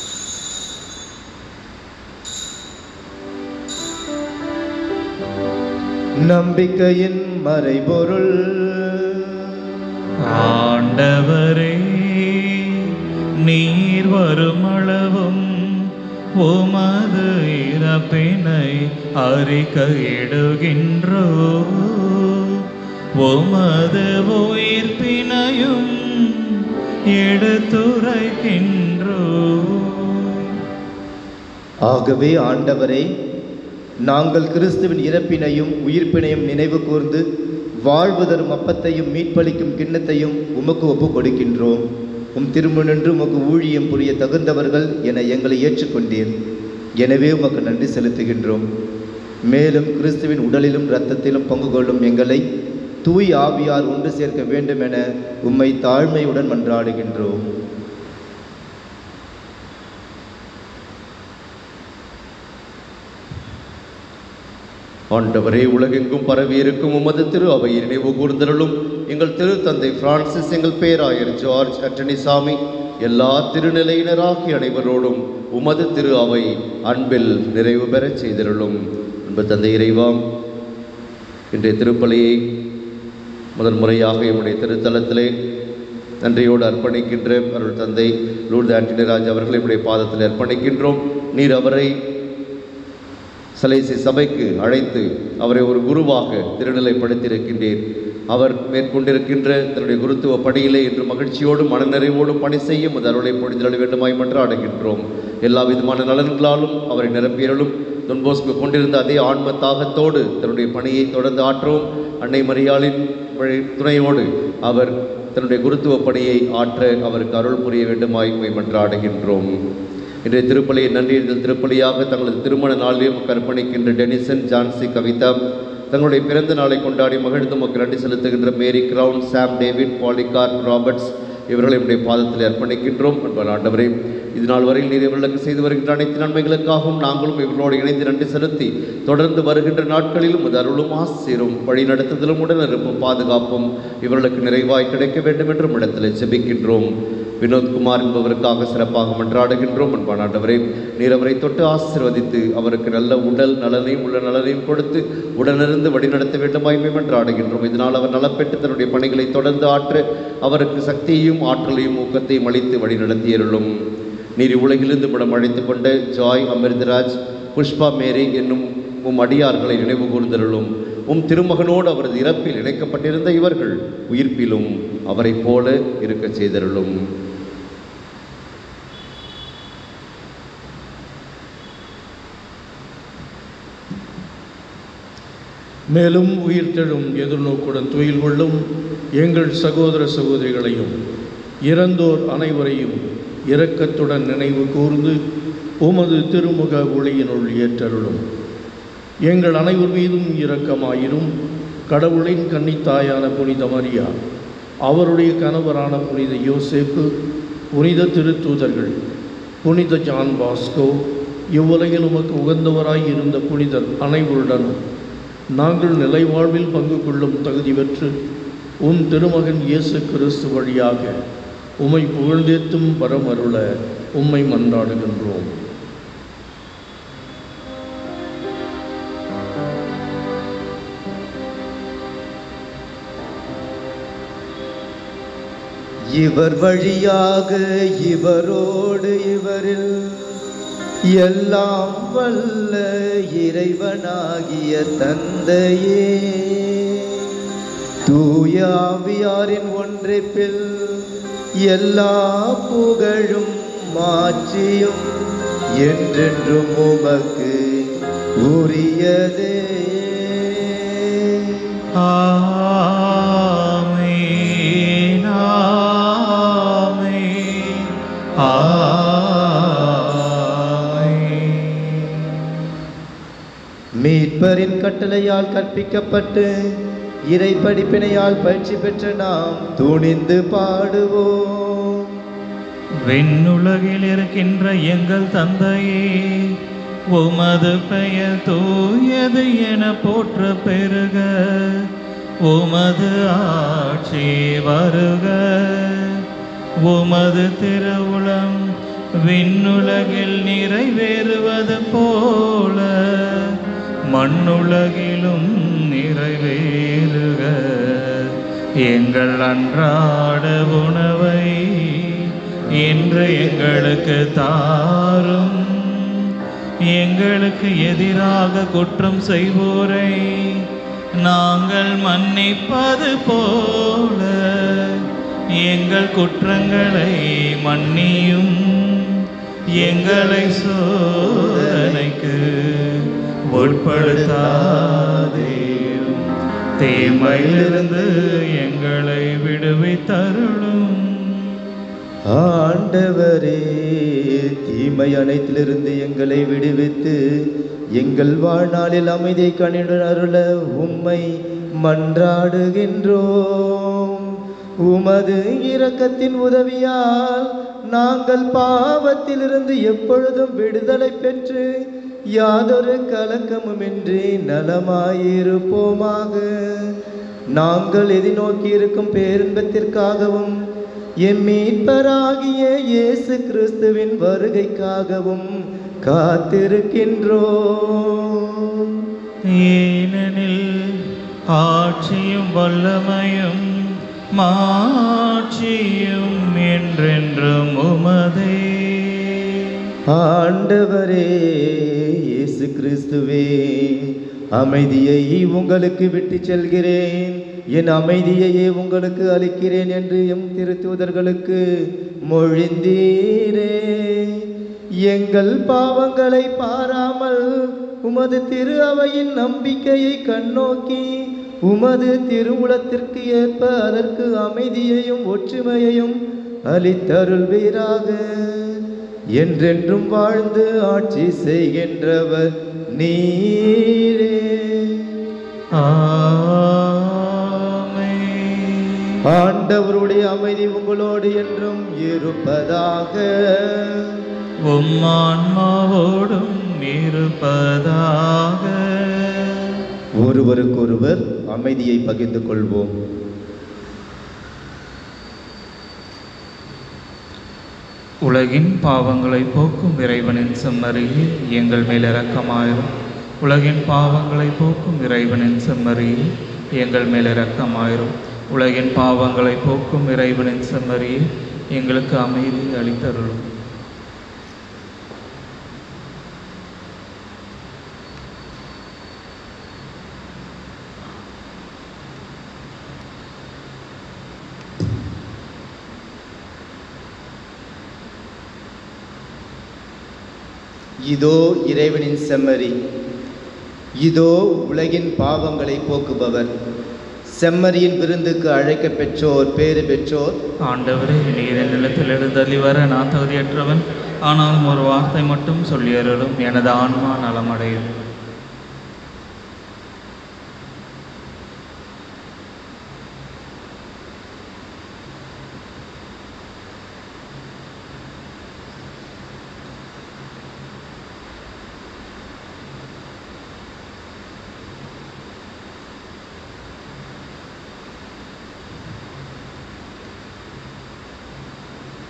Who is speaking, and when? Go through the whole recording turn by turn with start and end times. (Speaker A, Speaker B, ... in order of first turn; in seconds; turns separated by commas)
Speaker A: 6.3-9.7, Speaker B: 10.2-12.9, Speaker B: 13.4-15.9, Speaker B: 16.4-22.6, Speaker B: 23.2-26.6, Speaker B: 27.2-30.6, Speaker A: 31.9-33.1, Speaker A: 34.1-37.2, Speaker A: 37.9-41.8, Speaker A: 42.4-46.3, Speaker A: 47.0-48.6, Speaker A: 49.5-52.4, Speaker A: 53.0-57.5, Speaker C: 65.1-80.2, Speaker C: 81.5-82.4, Speaker C: 83.6-85.3, Speaker C: 86.2-91.9, Speaker C: 93.5-97.8, Speaker C: 98.3-119.5, Speaker C: 120.2-125.3, Speaker C: 125.9-146.9, Speaker C: 147.4-163.7, Speaker C: 164.4-176.9, Speaker D: 185.9-188.6, Speaker D: 189.2-190.9, Speaker D: 191.7-193.0, Speaker D: 193.5-195.2, Speaker D: 195.8-198.2, Speaker D: 199.3-201.3, Speaker D: 201.9-204.1, Speaker D: 204.9-207.1, Speaker D: 207.8-208.9, Speaker D: 209.6-210.9, Speaker D: 211.5-214.8, Speaker D: 215.6-218.1, Speaker D: 218.8-221.2, Speaker D: 221.8-223.7, Speaker D: 224.2-225.5, Speaker A: 236.2-240.4, Speaker A: 241.1-247.3, Speaker A: 248.1-251.1, Speaker A: 251.6-255.1, Speaker A: 255.8-261.8, Speaker B: 262.0-272.3, Speaker A: 274.0-276.5, Speaker A: 277.3-282.1, Speaker B: 283.1-286.6, Speaker B: 287.1-291.9, Speaker B: 292.4-296.2, Speaker B: 296.9-298.6, Speaker B: 299.2-303.6, Speaker B: 304.1-316.3, Speaker B: 316.9-320.6, Speaker B: 321.2-329.2, Speaker A: 329.8-330.7, Speaker B: 329.8-336.1, Speaker A: 331.2-332.1, Speaker A: 333.5-336.2, Speaker B: 336.8-341.6, Speaker A: 336.9-338.4, Speaker A: 342.3-347.2, Speaker A: 348.0-351.2, Speaker A: 351.8-354.3, Speaker A: 354.9-366.9, Speaker A: 367.6-370.6, Speaker A: 371.2-375.5, Speaker A: 376.0-379.1, Speaker B: 379.5-383.6, Speaker B: 384.4-389.8, Speaker A: 390.1-404.5, Speaker A: 405.0-416.2, Speaker A: 416.7-418.8, Speaker A: 419.4-425.2, Speaker B: 425.7-429.2, Speaker A: 429.2-434.2, Speaker B: 434.7-439.8, Speaker A: 440.2-442.9, Speaker B: 448.2-452.9, Speaker B: 453.4-456.2, Speaker B: 456.8-463.4, Speaker A: 481.1-482.8, Speaker A: 484.0-486.5, Speaker A: 487.4-490.4, Speaker B: 490.6-497.9